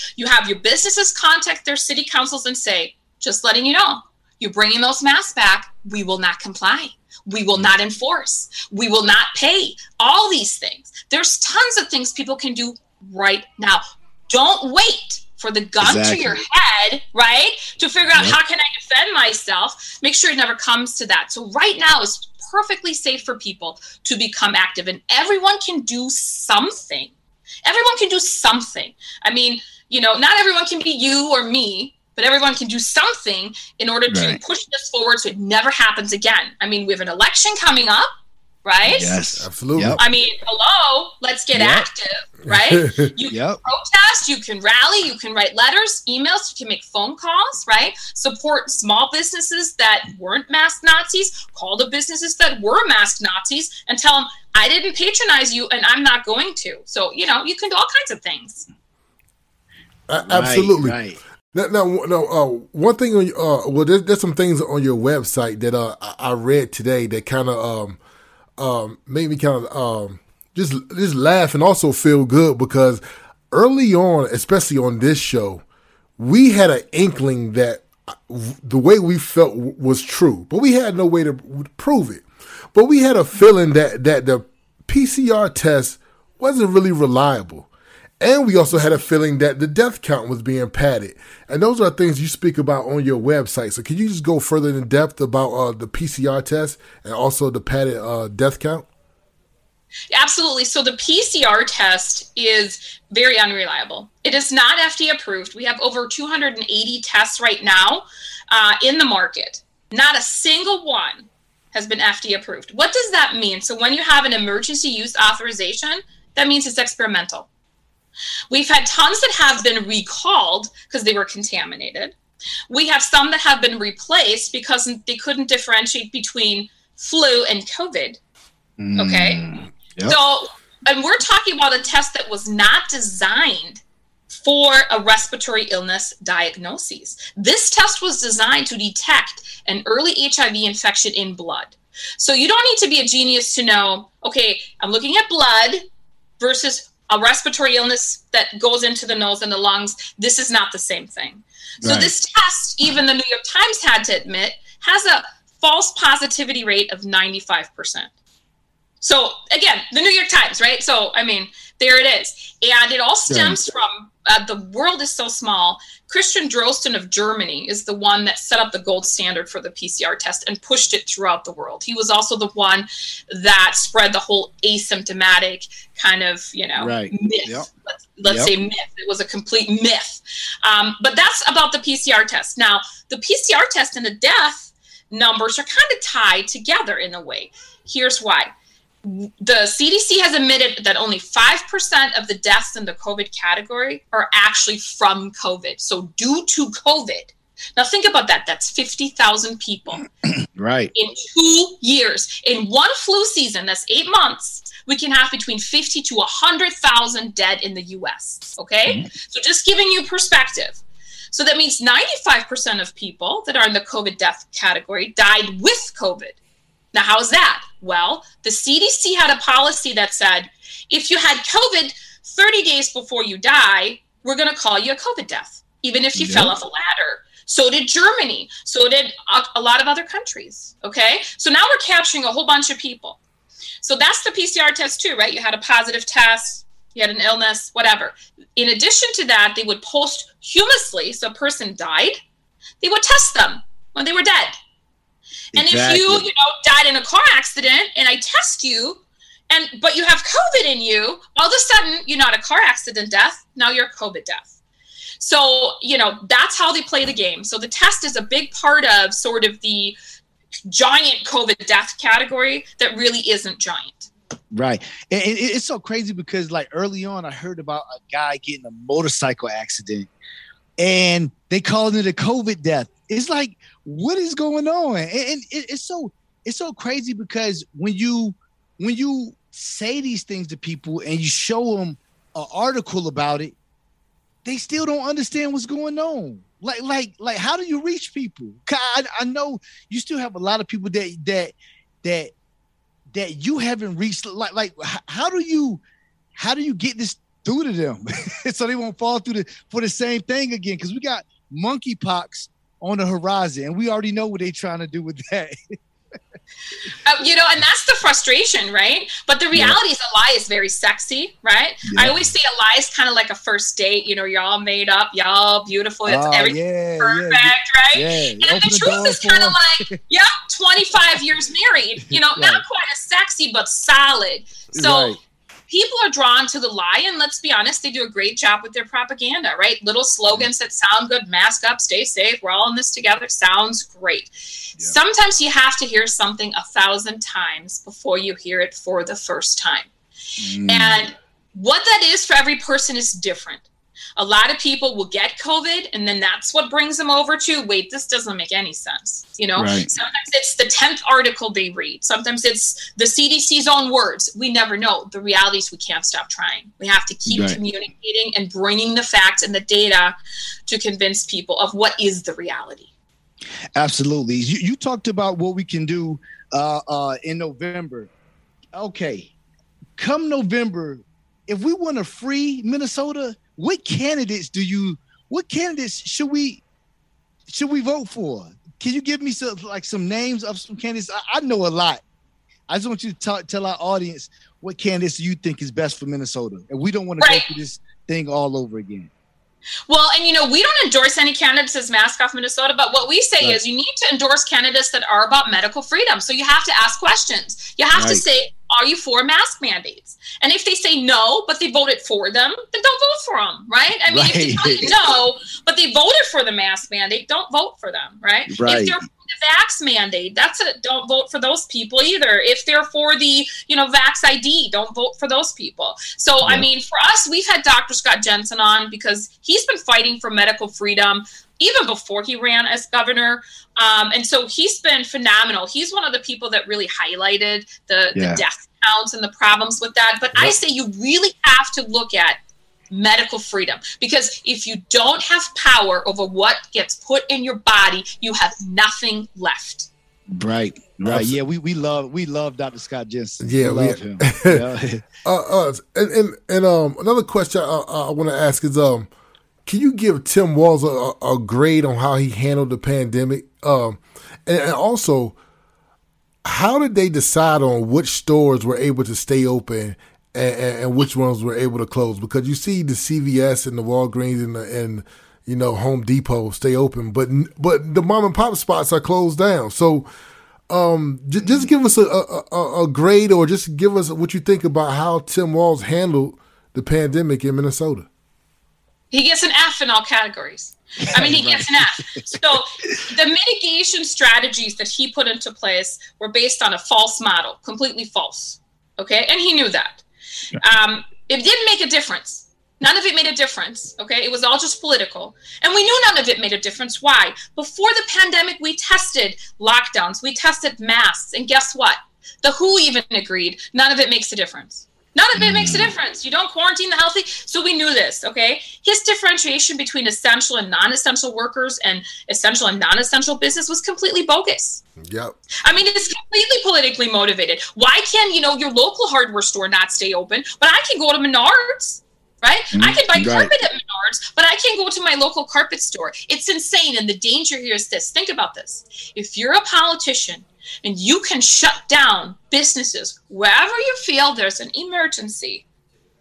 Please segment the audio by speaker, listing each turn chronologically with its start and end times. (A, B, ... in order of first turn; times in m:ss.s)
0:00.2-0:27.1 A
0:15.8-0:16.4 B
0:27.6-0:38.1 A
0:34.1-0:34.4 B
0:38.6-0:39.2 A
0:38.9-0:40.0 B
0:39.4-0:40.0 C
0:40.0-0:58.7 A
0:41.5-0:41.9 B
0:42.5-0:43.1 C
0:43.3-0:43.6 B
1:00.1-1:01.0 C
1:00.3-1:01.2 B
1:01.5-1:08.0 C
1:08.6-1:15.6 C
1:16.2-1:38.9 C
1:40.1-1:57.5 A
1:58.5-2:02.2 A
2:02.7-2:08.2 A
2:08.8-2:10.2 B
2:09.0-2:09.4 A
2:10.0-2:25.8 A
2:26.4-2:38.1 A
2:31.8-2:32.1 B
2:39.0-3:08.5 A
2:43.3-2:43.6 B
2:56.8-2:57.7 B
2:58.2-2:58.5 B
3:09.0-3:20.1 A
3:20.6-3:20.9 B
3:21.0-3:30.8 A
3:31.3-3:36.4 A
3:36.9-3:53.2 A
3:46.1-3:46.5 B
3:53.8-4:02.2 A
4:02.8-4:04.6 A
4:05.5-4:06.3 B
4:05.6-4:14.5 A
4:15.2-4:20.0 A
4:20.7-4:24.1 A
4:24.5-4:30.1 B
4:30.8-4:43.6 B
4:44.4-4:52.3 B
4:53.1-4:55.8 B
4:56.4-5:05.8 B
5:07.0-5:25.2 A
5:09.5-5:09.8 B
5:11.8-5:12.2 B
5:16.1-5:20.0 B
5:22.4-5:22.6 B
5:24.7-5:25.2 B
5:25.7-5:39.9 A
5:40.4-5:41.0 B
5:40.7-6:00.2 A
5:49.6-5:49.9 B
5:57.3-5:57.6 B
6:00.7-6:02.9 A
6:03.8-6:08.1 B
6:08.7-6:09.3 B
6:10.0-6:16.6 B
6:17.5-6:22.0 B
6:22.7-6:29.1 B
6:27.2-6:27.5 A
6:29.9-7:12.4 A
6:38.0-6:38.2 B
6:44.1-6:45.0 B
6:48.5-6:49.0 B
7:08.1-7:08.4 B
7:12.9-7:19.9 A
7:20.3-7:25.0 B
7:21.0-7:21.4 C
7:23.4-7:24.7 C
7:25.2-7:29.1 C
7:29.7-7:35.4 C
7:36.4-7:50.1 C
7:50.7-7:58.1 C
7:51.4-7:51.7 B
7:59.1-8:10.0 A
8:01.2-8:03.0 B
8:10.6-8:34.8 A
8:25.4-8:25.9 B
8:35.0-8:35.4 C
8:35.6-8:55.6 A
8:42.7-8:43.5 B